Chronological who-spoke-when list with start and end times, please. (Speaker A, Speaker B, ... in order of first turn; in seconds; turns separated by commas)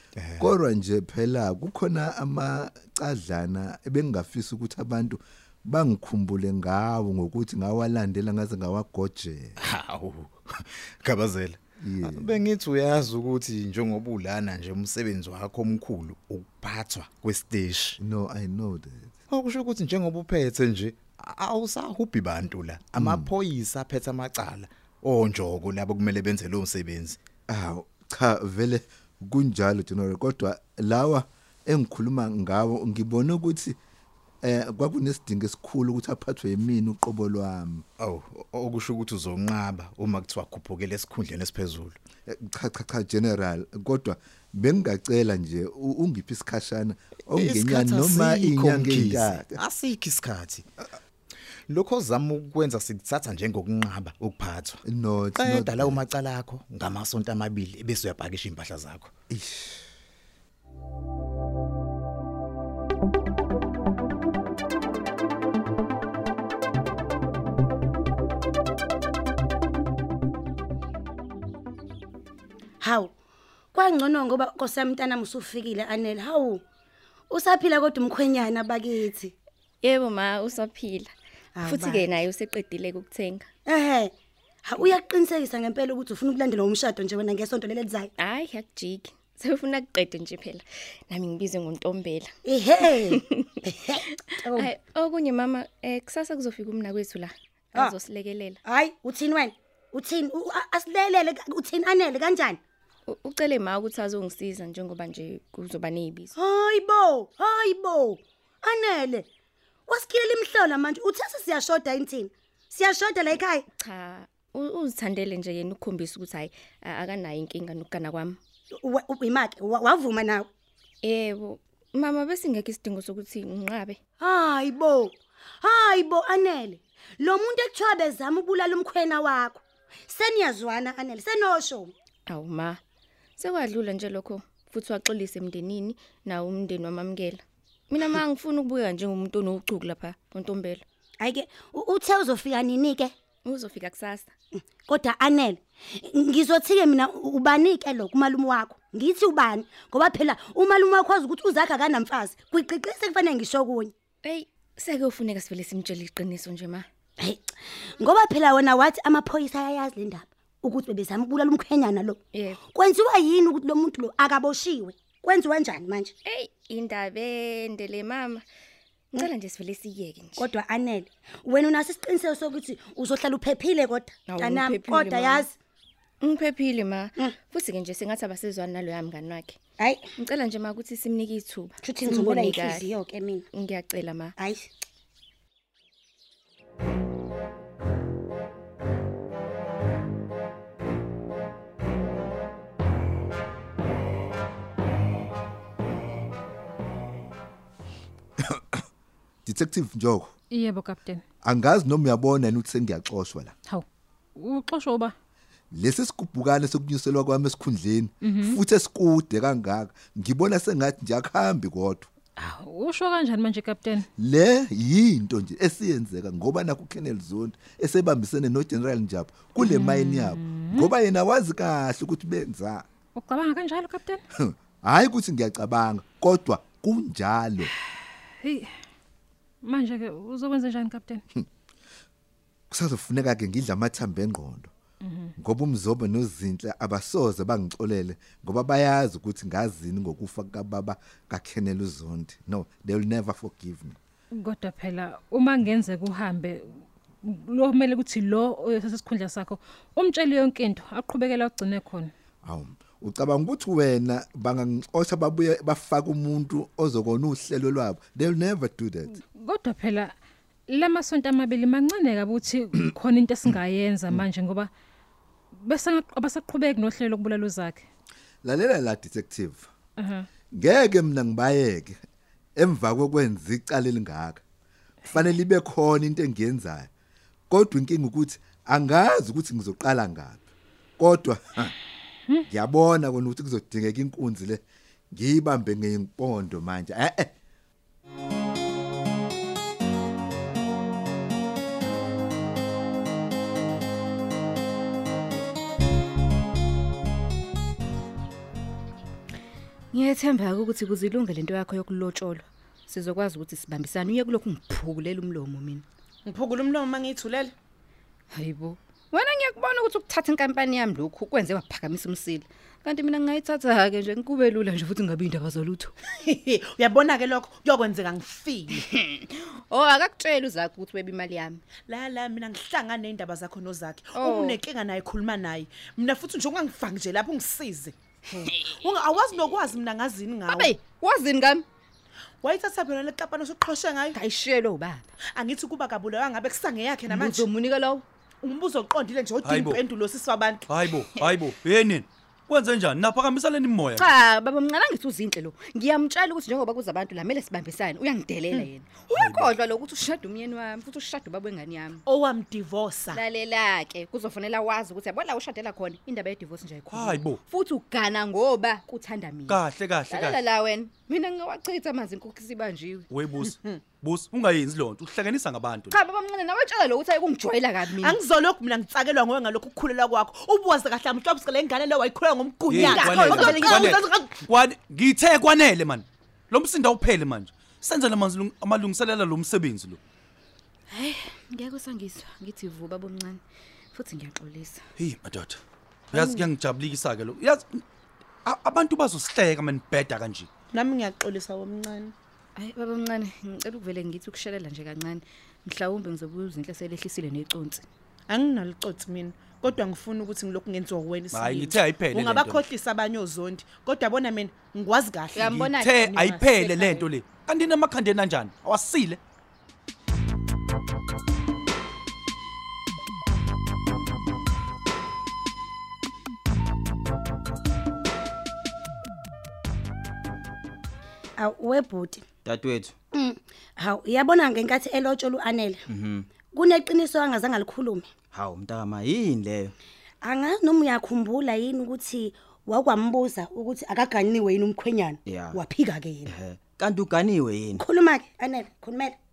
Speaker A: 0.1-0.5, Speaker B: 0.4-9.6, Speaker A: 9.6-18.0, Speaker B: 11.8-12.3, Speaker B: 18.0-19.1, Speaker A: 19.3-27.2, Speaker B: 23.0-23.3, Speaker B: 27.5-33.8, Speaker B: 34.4-37.9, Speaker A: 38.0-42.0, Speaker B: 42.3-49.5, Speaker A: 47.3-50.6, Speaker A: 51.7-54.8, Speaker B: 54.9-56.0, Speaker A: 55.4-59.1, Speaker B: 59.3-59.8, Speaker C: 72.8-73.1, Speaker C: 73.7-76.6, Speaker C: 77.3-79.3, Speaker D: 79.8-81.1, Speaker C: 81.6-82.1, Speaker D: 81.6-83.5, Speaker C: 83.7-84.1, Speaker C: 84.6-88.1, Speaker D: 88.2-92.3, Speaker C: 92.5-93.2, Speaker D: 93.2-93.6, Speaker C: 93.8-94.7, Speaker D: 94.5-98.6, Speaker C: 98.7-102.6, Speaker D: 103.1-106.3, Speaker C: 106.4-109.3, Speaker C: 109.9-113.6, Speaker D: 113.8-118.4, Speaker C: 118.8-120.5, Speaker D: 121.0-124.0, Speaker C: 124.2-131.9, Speaker D: 132.3-132.8, Speaker D: 133.4-140.8, Speaker C: 141.2-143.1, Speaker D: 143.4-144.3, Speaker C: 144.9-153.9, Speaker D: 154.2-156.8, Speaker C: 157.2-162.2, Speaker C: 162.7-166.1, Speaker D: 166.2-168.4, Speaker D: 169.1-170.4, Speaker C: 170.4-175.5, Speaker D: 174.3-175.4, Speaker D: 176.2-179.6, Speaker D: 180.2-182.9, Speaker C: 181.8-183.4, Speaker D: 183.5-184.3, Speaker C: 184.4-184.7, Speaker B: 198.4-198.8, Speaker B: 199.4-200.3, Speaker E: 200.5-201.2, Speaker B: 201.4-203.5, Speaker E: 203.7-205.1, Speaker B: 205.7-212.1, Speaker E: 208.2-208.6, Speaker E: 212.4-214.1, Speaker B: 214.2-222.8, Speaker E: 219.6-220.9, Speaker E: 223.2-224.2, Speaker B: 224.3-227.7, Speaker E: 228.4-228.7, Speaker E: 229.6-231.2, Speaker B: 232.7-234.7, Speaker E: 235.0-235.3, Speaker B: 235.4-244.0, Speaker E: 244.3-252.1, Speaker B: 252.4-259.1, Speaker E: 259.1-260.1, Speaker E: 260.7-264.7, Speaker E: 265.6-267.8, Speaker B: 268.4-269.7, Speaker E: 270.0-270.3, Speaker B: 270.5-271.9, Speaker B: 272.6-274.4, Speaker B: 275.1-276.9, Speaker B: 277.5-280.4, Speaker B: 281.0-281.7, Speaker B: 282.5-284.6, Speaker B: 285.1-287.3, Speaker F: 299.9-305.8, Speaker G: 306.2-307.5, Speaker F: 308.3-315.9, Speaker G: 316.1-318.9, Speaker F: 318.9-321.6, Speaker G: 321.9-327.9, Speaker F: 324.1-324.6, Speaker F: 328.4-328.7, Speaker G: 328.6-330.8, Speaker F: 330.5-331.6, Speaker G: 332.4-334.2, Speaker F: 334.1-335.0, Speaker G: 335.3-337.5, Speaker F: 337.1-338.0, Speaker G: 338.4-340.7, Speaker H: 339.4-339.8, Speaker H: 340.7-344.1, Speaker F: 344.0-352.0, Speaker H: 349.1-349.6, Speaker G: 352.1-353.2, Speaker F: 353.1-363.1, Speaker H: 356.9-357.4, Speaker H: 359.5-360.4, Speaker H: 363.1-366.0, Speaker F: 365.9-368.2, Speaker G: 367.8-374.4, Speaker H: 372.7-380.0, Speaker F: 372.8-373.7, Speaker F: 380.9-383.4, Speaker F: 383.9-384.8, Speaker H: 385.0-385.6, Speaker H: 386.1-387.8, Speaker F: 386.1-386.5, Speaker H: 388.4-390.5, Speaker G: 390.7-392.1, Speaker F: 392.6-397.8, Speaker G: 398.3-405.5, Speaker H: 401.3-402.7, Speaker F: 405.4-407.1, Speaker H: 405.5-409.2, Speaker C: 421.4-422.2, Speaker I: 422.4-422.9, Speaker C: 423.1-425.8, Speaker I: 425.9-426.3, Speaker C: 426.5-428.1, Speaker I: 428.3-429.7, Speaker C: 430.2-436.3, Speaker I: 435.2-435.6, Speaker I: 436.2-437.9, Speaker C: 437.8-439.1